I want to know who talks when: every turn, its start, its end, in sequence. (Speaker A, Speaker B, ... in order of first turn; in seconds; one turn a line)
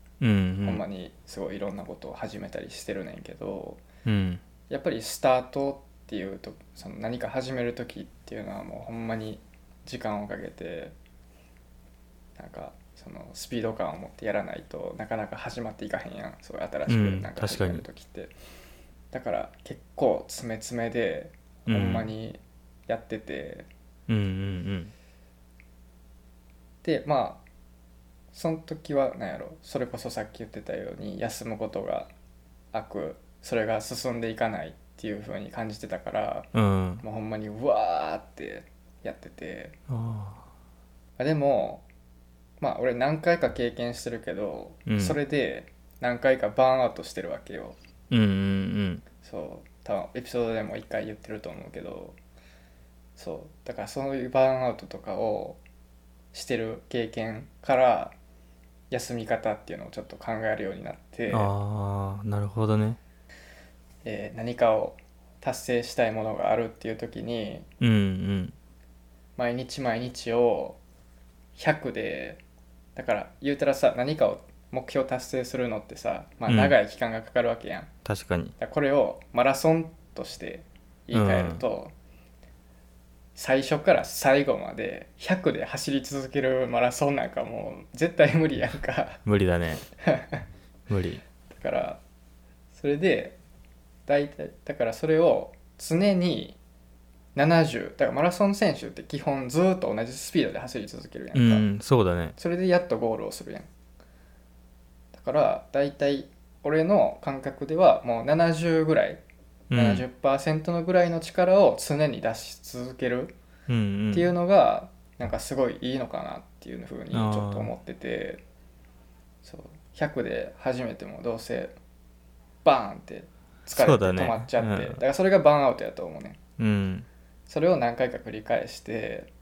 Speaker A: 0.2-0.8
Speaker B: 0.6-3.8
Speaker A: 4.0-4.4
Speaker B: 4.7-10.9
Speaker B: 12.4-18.3
Speaker A: 16.9-17.9
Speaker B: 19.1-23.7
Speaker A: 21.7-22.1
Speaker A: 24.1-24.9
Speaker B: 26.8-27.4
Speaker B: 28.3-32.1
Speaker B: 32.7-36.5
Speaker A: 36.5-37.0
Speaker B: 37.0-39.8
Speaker A: 39.9-40.4
Speaker B: 41.2-41.9
Speaker B: 42.6-47.8
Speaker A: 44.9-45.2
Speaker A: 48.1-49.0
Speaker B: 49.2-52.2
Speaker B: 53.2-55.6
Speaker B: 56.3-58.2
Speaker B: 58.9-61.5
Speaker A: 61.3-63.0
Speaker B: 64.0-67.7
Speaker A: 67.8-68.5
Speaker B: 69.4-70.8
Speaker B: 71.5-72.4
Speaker B: 73.0-77.9
Speaker A: 76.5-76.8
Speaker A: 78.0-78.5
Speaker B: 78.6-81.9
Speaker A: 81.1-81.6
Speaker B: 83.4-89.2
Speaker A: 89.2-89.8
Speaker B: 90.0-90.5
Speaker A: 90.9-91.2
Speaker B: 91.5-92.0
Speaker B: 92.7-93.4
Speaker B: 94.1-96.6
Speaker B: 97.3-101.7
Speaker A: 101.3-102.4
Speaker B: 102.4-103.7
Speaker B: 105.1-109.2
Speaker A: 109.7-110.0
Speaker B: 109.8-113.4
Speaker A: 113.7-114.3
Speaker B: 114.1-118.4
Speaker A: 117.1-117.7
Speaker B: 119.4-121.8
Speaker B: 122.6-126.4
Speaker A: 123.7-125.0
Speaker A: 126.6-127.1
Speaker B: 127.5-129.3